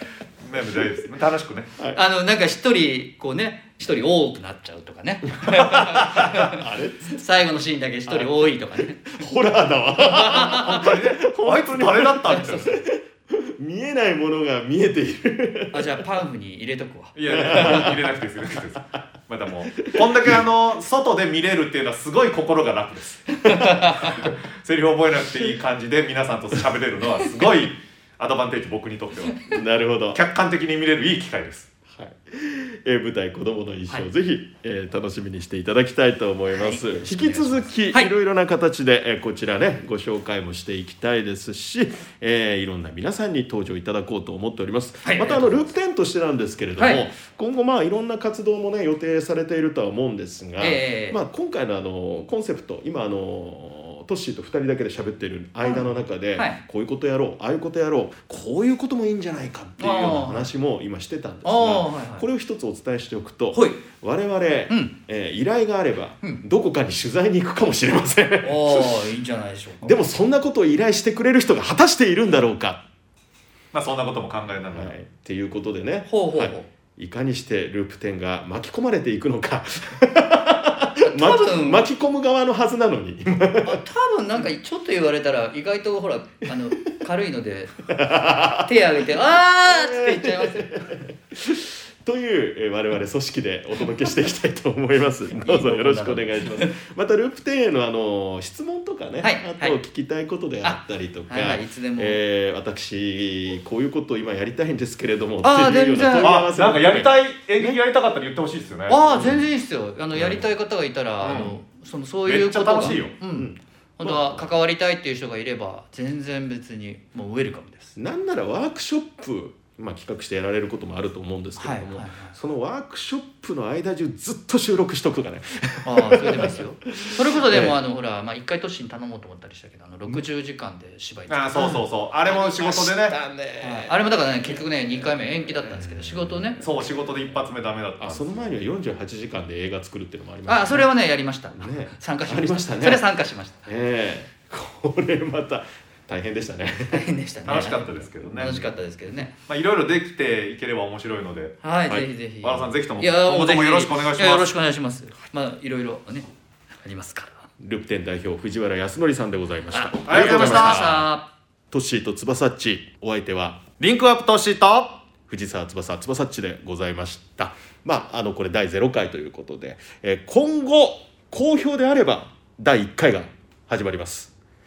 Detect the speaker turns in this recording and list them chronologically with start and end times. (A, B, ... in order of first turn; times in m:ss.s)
0:00.4-0:01.7 A
0:01.9-0:09.0 B
0:05.4-0:07.2 C
0:05.8-0:06.4 A
0:08.1-0:08.4 C
0:09.0-0:16.0 C
0:10.0-0:10.8 B
0:10.4-0:12.7 A
0:12.2-0:12.7 B
0:15.7-0:17.9 B
0:17.2-0:29.4 A
0:17.3-0:18.0 C
0:19.8-0:20.3 C
0:23.5-0:24.2 B
0:29.5-0:30.2 C
0:30.1-0:31.7 A
0:31.9-1:09.0 C
0:36.5-0:38.1 B
0:45.0-0:45.7 B
0:46.8-0:47.0 B
0:50.6-0:51.2 B
0:55.6-0:56.6 B
0:59.8-1:00.5 B
1:01.4-1:02.2 B
1:03.5-1:03.8 B
1:04.7-1:04.9 B
1:08.4-1:10.1 B
1:09.8-1:12.8 C
1:13.7-1:14.9 A
1:14.7-1:23.8 C
1:16.1-1:16.7 B
1:21.0-1:21.8 B
1:23.6-1:30.9 B
1:27.9-1:28.7 C
1:29.6-1:47.8 C
1:35.4-1:36.7 B
1:39.2-1:39.8 B
1:40.6-1:42.2 B
1:45.4-1:46.4 B
1:46.2-1:49.0 A
1:48.9-1:58.0 B
1:49.1-1:49.5 C
1:50.1-1:50.4 C
1:51.2-1:51.5 A
1:52.2-1:53.1 A
1:52.8-1:54.5 C
1:58.0-2:07.7 C
2:01.6-2:02.4 B
2:05.8-2:11.8 B
2:11.3-2:13.1 A
2:11.6-2:16.9 C
2:13.6-2:16.6 B
2:16.6-2:18.5 A
2:18.0-2:20.9 C
2:20.5-2:23.7 B
2:21.5-2:23.1 C
2:23.6-2:28.7 C
2:26.9-2:29.3 B
2:27.4-2:28.6 A
2:29.5-2:31.6 A
2:31.6-2:37.5 B
2:32.4-2:34.5 A
2:37.6-2:41.1 C
2:39.7-2:41.2 B
2:40.1-2:41.0 A
2:41.7-2:43.6 C
2:43.8-2:45.0 A
2:45.3-2:54.3 C